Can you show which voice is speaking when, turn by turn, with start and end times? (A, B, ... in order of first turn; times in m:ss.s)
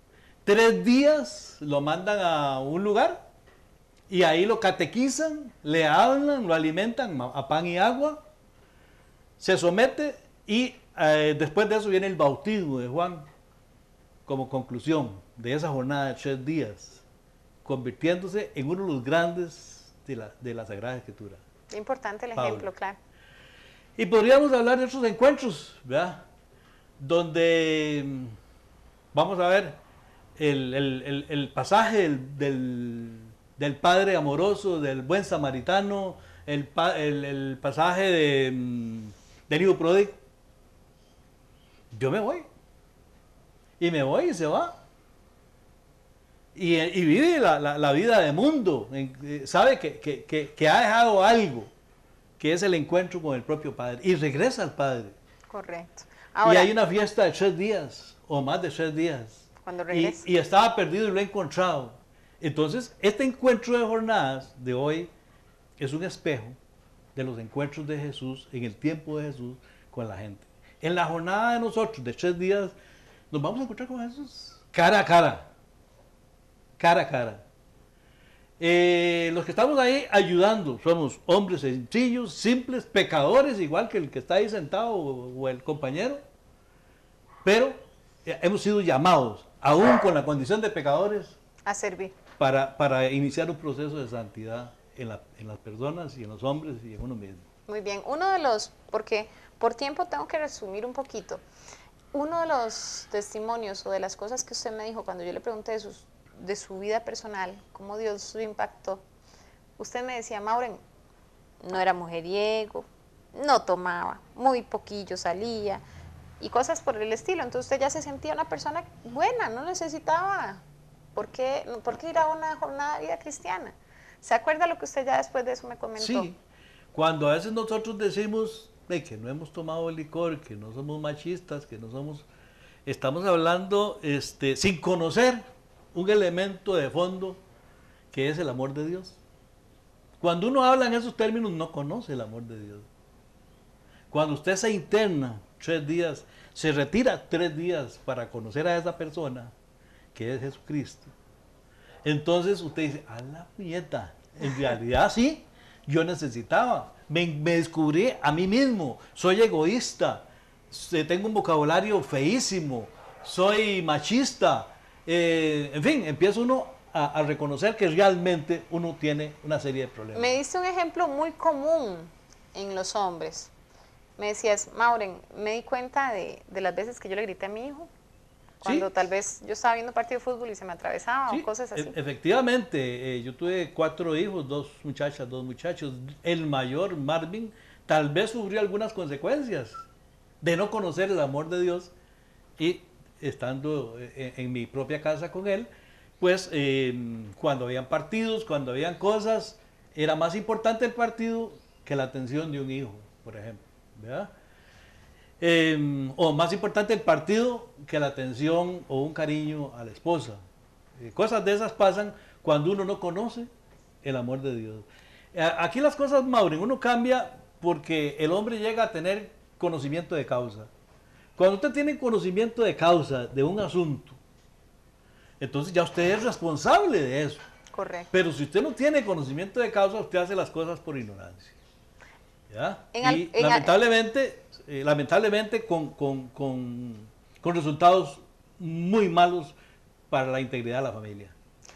0:00.4-0:03.2 A
0:04.1-0:08.2 A
0:09.4-0:13.2 A
0:14.2-0:17.0 A
0:17.6-0:21.4 A
0:21.7-0:23.0 B
0:22.4-0:22.7 A
0:24.0-0:26.2 A
0:27.0-0:28.4 A
0:29.1-0:29.8 A
0:30.4-0:40.2 A
0:41.9-0:42.4 A
0:43.8-0:44.8 A
0:46.5-0:51.7 A
0:52.4-0:55.1 A
0:55.5-0:56.7 B
0:56.4-1:05.1 A
0:59.6-1:00.2 B
1:05.8-1:06.6 A
1:07.1-1:12.7 A
1:13.3-1:15.5 A
1:16.8-1:17.4 A
1:18.6-1:26.2 A
1:27.4-1:31.4 A
1:31.7-1:32.1 B
1:32.4-1:37.4 A
1:37.7-1:41.4 B
1:42.1-1:49.0 B
1:49.8-1:50.8 B
1:51.6-1:55.8 B
1:56.4-2:00.6 B
2:01.2-2:06.3 B
2:06.0-2:06.4 A
2:06.9-2:12.2 A
2:12.8-2:17.4 A
2:18.1-2:19.2 A
2:20.2-2:22.9 A
2:24.1-2:29.5 A
2:30.1-2:31.1 A
2:32.0-2:50.4 A
2:50.1-2:53.5 B
2:54.2-2:57.9 B
2:58.6-3:01.9 B
3:01.3-3:09.8 A
3:10.4-3:11.9 A
3:12.6-3:15.7 A
3:16.2-3:24.3 A
3:25.4-3:30.4 A
3:31.0-3:33.5 A
3:34.0-3:40.7 A
3:41.4-3:44.2 A
3:45.4-3:47.4 A
3:47.7-3:48.1 B
3:48.1-3:51.6 A
3:52.5-3:59.5 A
3:52.9-3:53.7 B
4:00.1-4:01.3 A